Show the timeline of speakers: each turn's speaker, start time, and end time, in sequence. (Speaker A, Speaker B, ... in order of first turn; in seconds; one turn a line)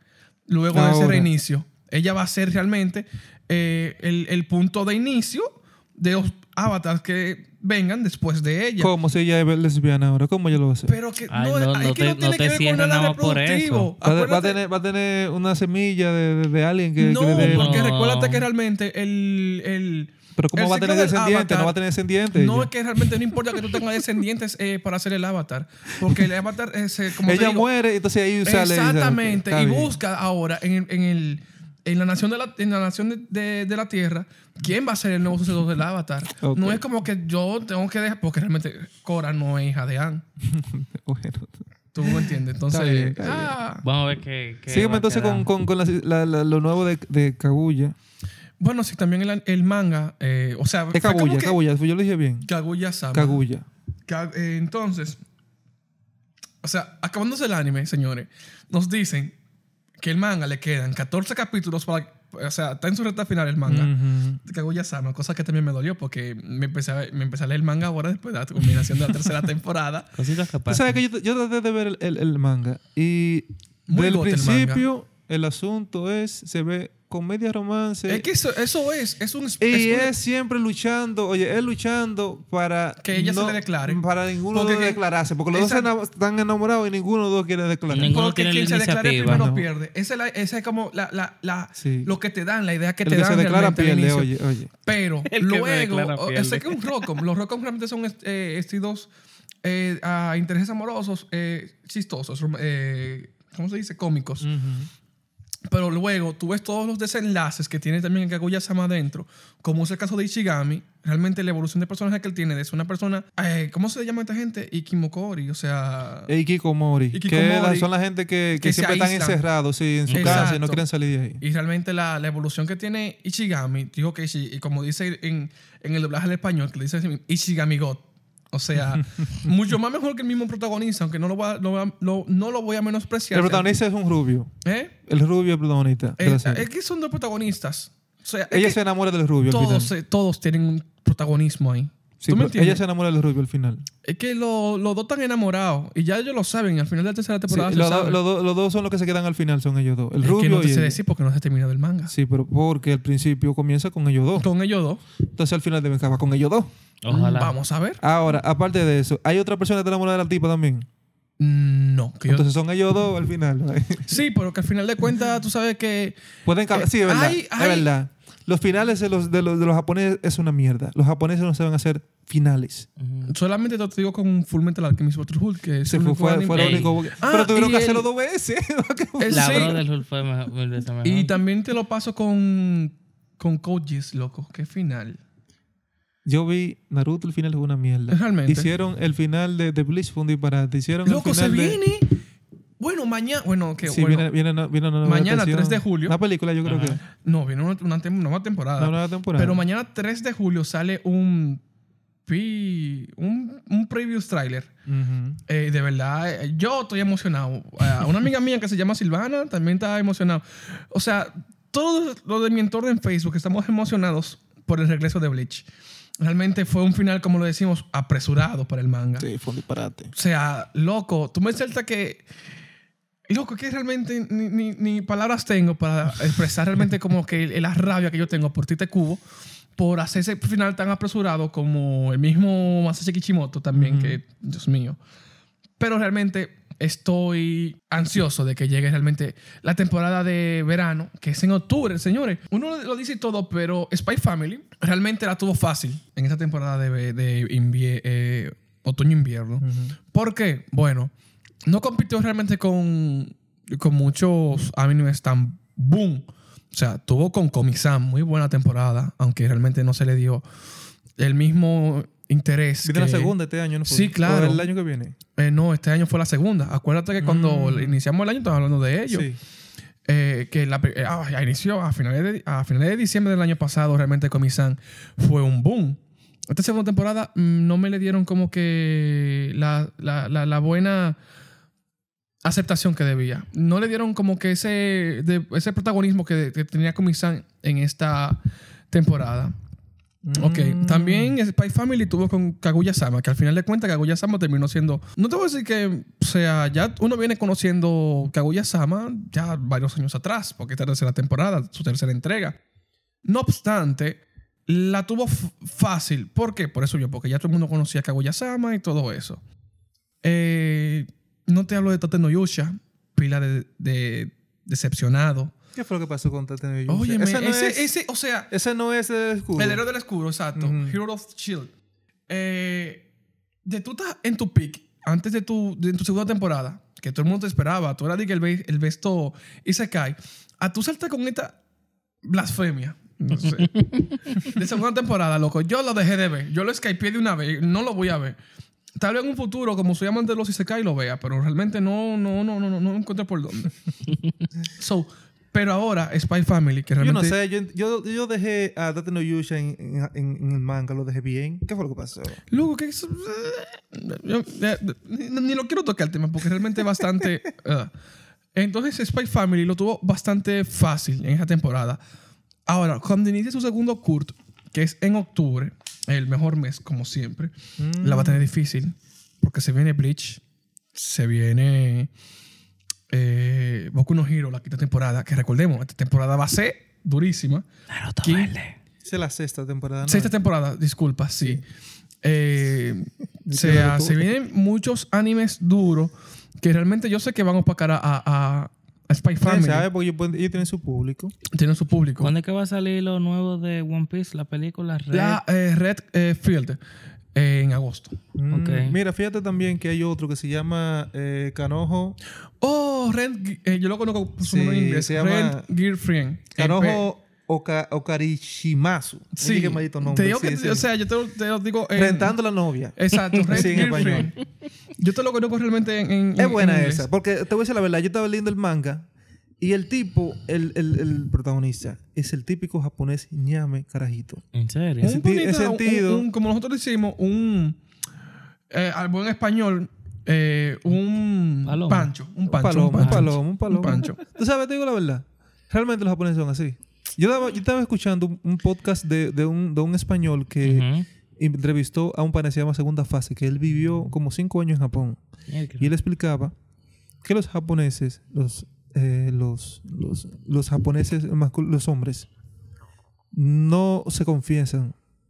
Speaker A: 0.5-8.9
Speaker B: 0.7-1.3
Speaker B: 8.8-10.9
Speaker A: 10.9-14.6
Speaker C: 11.3-13.9
Speaker B: 14.0-17.9
Speaker A: 17.0-21.8
Speaker C: 17.4-18.5
Speaker B: 20.4-23.9
Speaker A: 22.3-27.7
Speaker B: 27.2-29.9
Speaker A: 28.4-40.2
Speaker B: 36.4-36.8
Speaker B: 40.4-43.6
Speaker A: 41.9-43.8
Speaker C: 43.8-45.5
Speaker B: 44.7-48.0
Speaker A: 48.6-51.6
Speaker B: 50.9-52.5
Speaker A: 52.5-53.4
Speaker B: 53.1-53.7
Speaker A: 54.1-55.2
Speaker A: 56.6-59.4
Speaker A: 60.0-63.9
Speaker B: 63.7-64.4
Speaker A: 64.4-70.1
Speaker C: 70.2-71.0
Speaker B: 70.7-78.3
Speaker A: 73.9-74.8
Speaker A: 78.1-80.1
Speaker B: 79.6-88.2
Speaker A: 83.0-85.0
Speaker A: 85.5-85.9
Speaker C: 87.9-89.5
Speaker A: 88.1-94.3
Speaker B: 89.2-89.7
Speaker B: 91.8-92.1
Speaker B: 93.0-94.7
Speaker A: 94.8-99.1
Speaker C: 95.2-97.2
Speaker A: 99.6-104.5
Speaker B: 104.4-104.9
Speaker A: 105.7-116.3
Speaker B: 116.3-121.4
Speaker A: 117.1-117.9
Speaker A: 118.6-119.4
Speaker C: 120.1-120.5
Speaker A: 120.1-120.8
Speaker A: 121.4-133.7
Speaker B: 133.3-134.5
Speaker A: 134.6-134.9
Speaker B: 135.1-136.7
Speaker A: 136.2-138.8
Speaker B: 138.5-139.9
Speaker A: 139.5-142.8
Speaker B: 142.2-143.9
Speaker A: 144.1-148.2
Speaker B: 147.5-151.0
Speaker A: 150.2-152.1
Speaker B: 152.1-154.5
Speaker A: 154.3-155.0
Speaker B: 155.3-156.7
Speaker C: 157.0-157.6
Speaker A: 157.1-158.0
Speaker B: 158.0-160.9
Speaker A: 161.4-162.5
Speaker B: 162.3-164.2
Speaker A: 164.1-166.2
Speaker B: 166.4-172.9
Speaker A: 166.7-167.9
Speaker C: 173.0-173.3
Speaker A: 173.3-178.1
Speaker B: 175.9-179.8
Speaker C: 176.5-176.9
Speaker A: 179.2-179.8
Speaker C: 179.3-181.4
Speaker A: 181.0-185.2
Speaker B: 186.2-191.8
Speaker A: 188.1-188.7
Speaker A: 191.1-192.2
Speaker A: 192.8-194.3
Speaker B: 193.8-197.0
Speaker A: 195.0-196.2
Speaker C: 196.7-197.0
Speaker A: 197.1-201.6
Speaker B: 198.8-199.6
Speaker A: 202.3-204.7
Speaker B: 204.9-205.4
Speaker A: 205.5-215.7
Speaker A: 216.2-219.3
Speaker B: 219.2-220.1
Speaker A: 220.1-222.2
Speaker A: 223.3-229.2
Speaker A: 229.8-235.0
Speaker B: 233.7-234.2
Speaker A: 235.8-251.1
Speaker B: 249.6-250.0
Speaker A: 251.7-260.4
Speaker A: 261.2-263.3
Speaker B: 262.8-265.2
Speaker A: 263.9-264.7
Speaker A: 265.4-269.3
Speaker B: 267.2-268.0
Speaker B: 269.1-269.4
Speaker A: 270.1-281.2
Speaker A: 282.4-288.4
Speaker A: 288.9-289.5
Speaker B: 290.2-291.4
Speaker A: 290.4-302.6
Speaker A: 303.2-309.4
Speaker A: 310.2-315.5
Speaker B: 315.8-317.9
Speaker A: 316.9-318.5
Speaker B: 318.5-319.8
Speaker A: 319.6-321.7
Speaker B: 320.6-321.0
Speaker A: 322.3-323.1
Speaker A: 323.7-331.6
Speaker A: 332.2-333.9
Speaker C: 333.6-334.0
Speaker A: 334.4-338.4
Speaker A: 339.0-343.8
Speaker A: 344.8-347.4
Speaker B: 347.0-352.4
Speaker A: 352.5-357.9
Speaker A: 358.6-362.0
Speaker A: 362.7-370.4
Speaker B: 367.8-368.5
Speaker A: 370.9-372.1
Speaker A: 373.1-377.7
Speaker C: 377.9-378.8
Speaker A: 378.2-378.5
Speaker B: 379.0-380.3
Speaker A: 380.0-381.6
Speaker A: 382.2-389.9
Speaker B: 383.4-384.3
Speaker B: 389.4-391.3
Speaker A: 391.5-392.3
Speaker C: 392.2-395.4
Speaker A: 395.1-396.8
Speaker A: 397.4-398.2
Speaker B: 398.4-402.2
Speaker C: 398.5-399.0
Speaker A: 402.6-407.1
Speaker B: 404.4-405.7
Speaker B: 406.6-410.9
Speaker A: 409.4-412.4
Speaker B: 411.9-414.3
Speaker A: 413.0-414.4
Speaker C: 413.4-414.3
Speaker A: 415.0-417.1
Speaker B: 416.4-419.1
Speaker B: 419.6-424.4
Speaker C: 424.5-425.1
Speaker B: 425.0-426.3
Speaker A: 425.0-427.8
Speaker A: 428.7-434.2
Speaker C: 431.7-432.1
Speaker B: 432.5-440.9
Speaker C: 433.0-433.3
Speaker C: 440.6-441.1
Speaker B: 441.4-445.2
Speaker C: 445.5-445.9
Speaker B: 445.8-446.5
Speaker B: 447.2-452.3
Speaker B: 453.3-455.0